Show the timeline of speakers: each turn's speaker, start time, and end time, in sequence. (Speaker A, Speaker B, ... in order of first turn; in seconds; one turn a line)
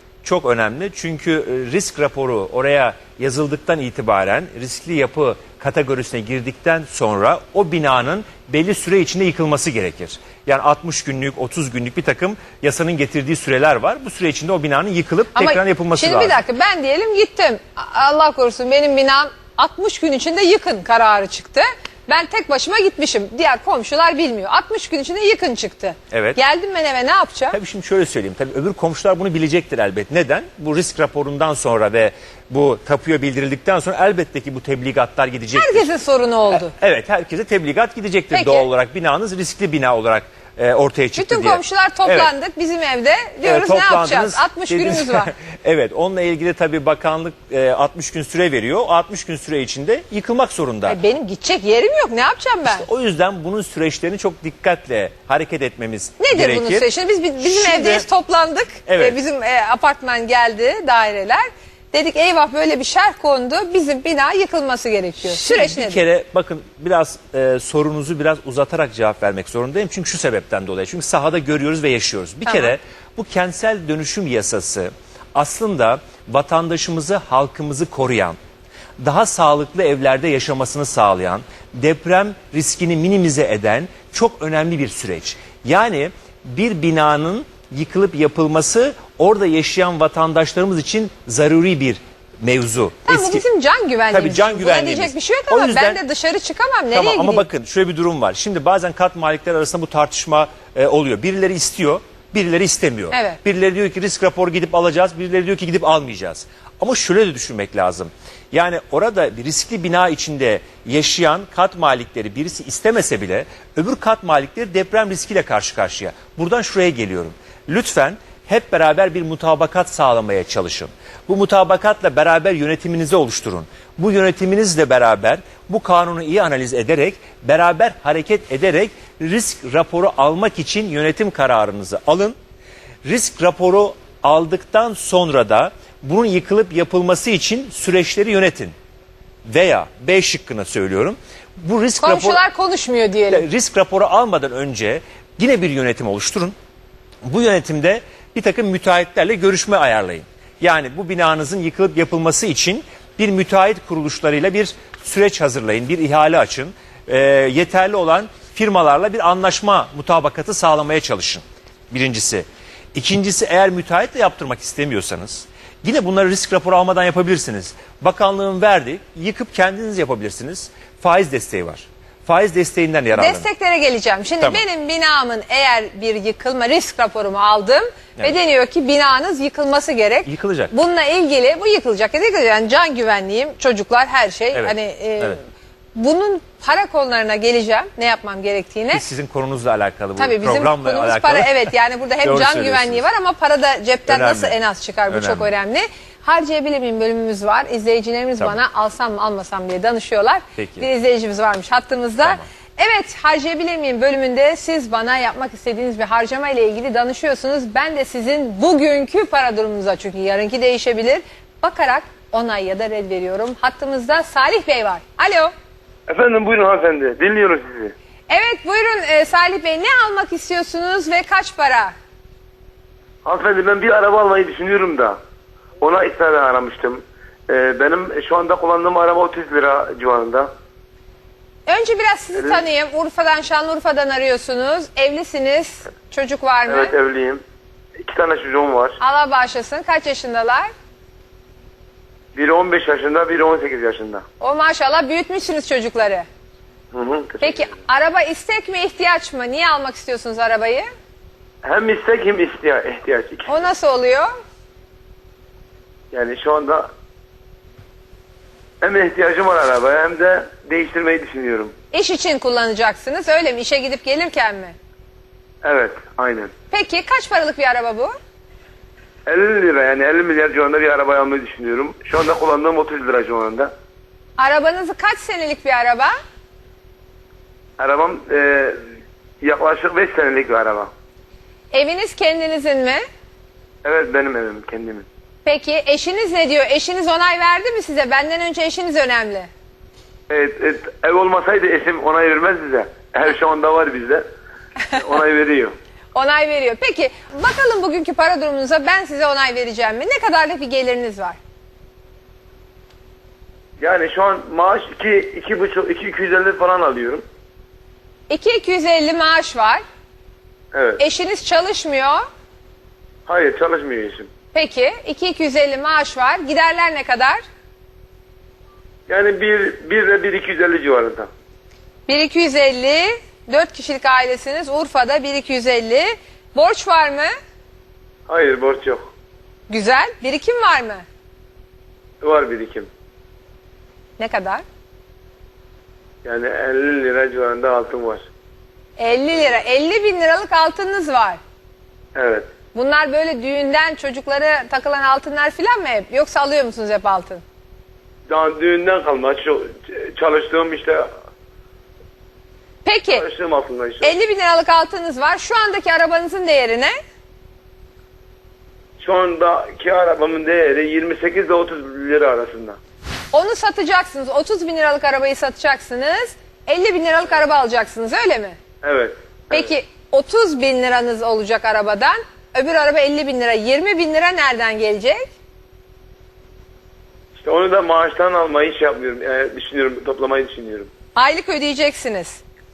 Speaker A: 0.2-16.4
Speaker B: 15.3-27.6
Speaker A: 26.1-26.4
Speaker A: 27.5-35.9
Speaker B: 35.5-36.7
Speaker A: 36.5-42.3
Speaker B: 38.3-38.7
Speaker B: 41.2-45.3
Speaker A: 43.4-51.0
Speaker B: 50.9-52.9
Speaker A: 52.6-56.9
Speaker B: 56.2-66.0
Speaker A: 57.4-58.1
Speaker A: 58.9-59.2
Speaker A: 65.2-78.4
Speaker B: 72.5-72.8
Speaker A: 79.0-93.4
Speaker B: 93.1-97.5
Speaker A: 94.1-96.0
Speaker A: 96.9-132.4
Speaker B: 103.1-103.4
Speaker A: 133.1-138.7
Speaker A: 139.5-142.4
Speaker B: 142.0-143.4
Speaker A: 143.3-146.6
Speaker A: 147.2-173.5
Speaker B: 173.2-185.4
Speaker A: 180.2-180.7
Speaker A: 184.5-185.4
Speaker B: 185.9-189.0
Speaker A: 188.9-191.7
Speaker B: 190.2-215.5
Speaker A: 192.2-193.0
Speaker A: 194.1-194.6
Speaker A: 195.1-195.5
Speaker A: 200.6-200.9
Speaker A: 202.2-202.5
Speaker C: 216.1-217.9
Speaker B: 218.3-221.9
Speaker C: 223.2-225.2
Speaker C: 225.8-230.5
Speaker B: 231.7-236.9
Speaker C: 236.7-237.4
Speaker C: 238.0-239.0
Speaker B: 239.0-240.7
Speaker C: 242.3-244.2
Speaker B: 244.4-246.3
Speaker C: 246.9-247.7
Speaker B: 247.4-250.9
Speaker C: 251.6-253.6
Speaker B: 253.5-254.3
Speaker C: 256.1-256.9
Speaker C: 258.8-261.7
Speaker B: 261.9-264.8
Speaker C: 265.6-266.5
Speaker B: 266.7-268.2
Speaker C: 269.3-273.7
Speaker B: 274.4-276.1
Speaker C: 277.8-278.8
Speaker C: 279.4-280.9
Speaker B: 281.7-283.0
Speaker C: 283.8-285.1
Speaker B: 285.5-289.5
Speaker C: 290.3-294.2
Speaker C: 295.0-295.8
Speaker B: 296.1-301.4
Speaker C: 303.8-307.2
Speaker B: 308.3-309.8
Speaker C: 310.7-311.0
Speaker B: 311.0-312.2
Speaker C: 313.3-314.3
Speaker B: 314.5-317.4
Speaker C: 319.1-321.3
Speaker B: 322.1-327.3
Speaker C: 328.3-329.1
Speaker B: 329.7-331.1
Speaker C: 332.2-332.9
Speaker B: 334.2-334.6
Speaker C: 336.2-338.3
Speaker B: 339.0-341.4
Speaker C: 342.1-342.5
Speaker B: 342.7-347.4
Speaker C: 348.3-351.1
Speaker B: 352.9-353.2
Speaker C: 353.1-354.1
Speaker B: 354.0-356.9
Speaker C: 359.0-362.8
Speaker B: 363.3-368.6
Speaker C: 368.8-369.7
Speaker B: 369.5-375.3
Speaker C: 377.4-380.9
Speaker B: 381.1-382.4